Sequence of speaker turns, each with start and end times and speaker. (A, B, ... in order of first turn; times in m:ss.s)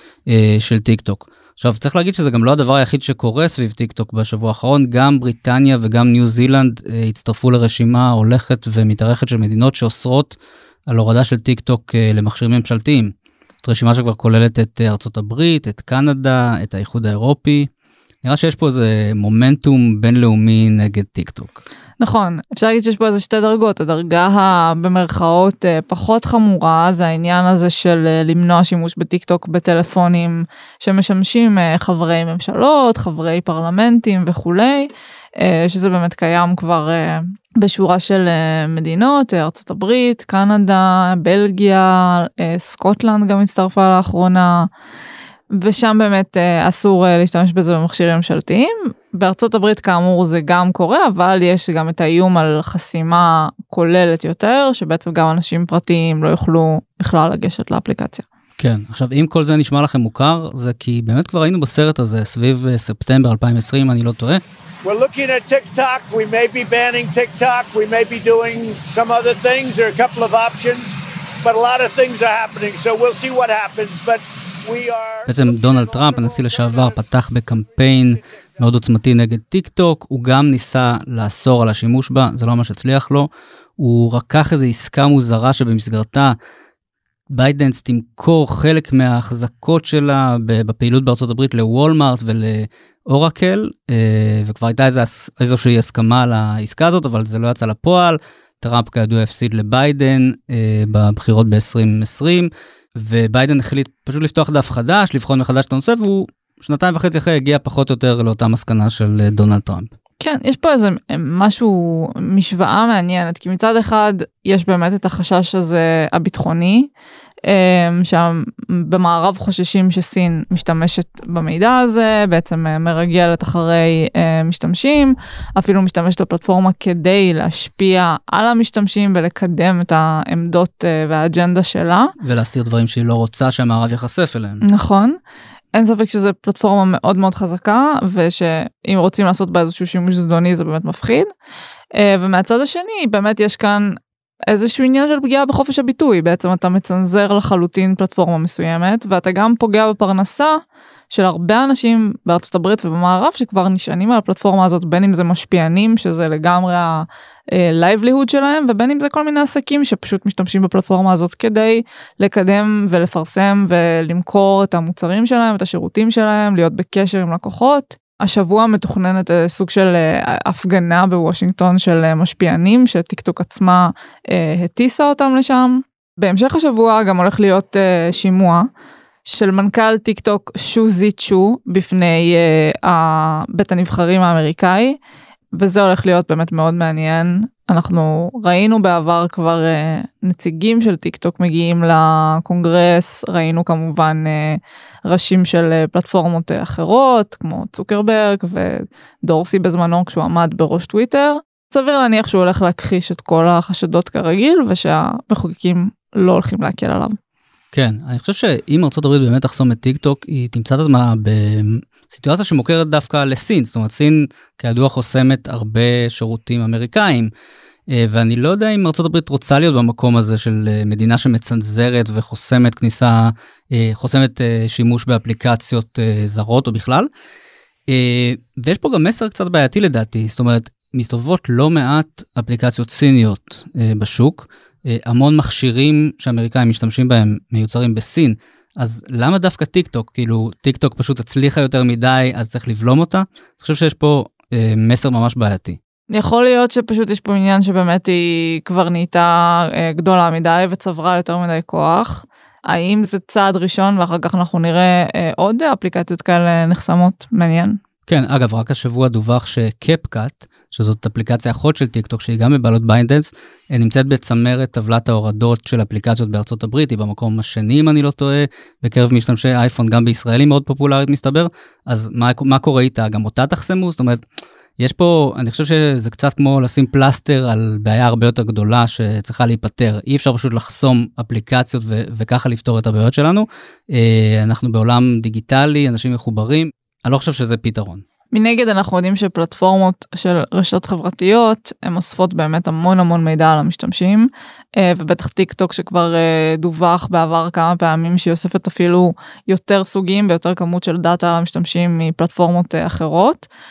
0:00.3-0:17.7 A
0:18.2-0:21.6 A
0:22.0-0:44.7 B
0:45.5-0:58.2 B
0:58.6-1:04.4 A
1:04.8-1:17.0 C
1:15.2-1:26.3 A
1:27.3-1:49.9 A
1:50.2-1:56.9 B
1:57.4-2:12.1 B
2:12.2-2:14.6 A
2:14.6-2:15.2 B
2:15.7-2:21.3 B
2:21.9-2:24.0 B
2:24.5-2:30.6 B
2:31.1-2:58.7 B
2:59.2-3:05.0 B
3:05.5-3:27.2 B
3:27.7-3:37.3 A
3:37.9-3:47.1 A
3:47.9-4:05.8 A
4:06.1-4:17.8 B
4:18.1-4:34.2 A
4:34.8-4:48.0 A
4:48.3-5:03.5 B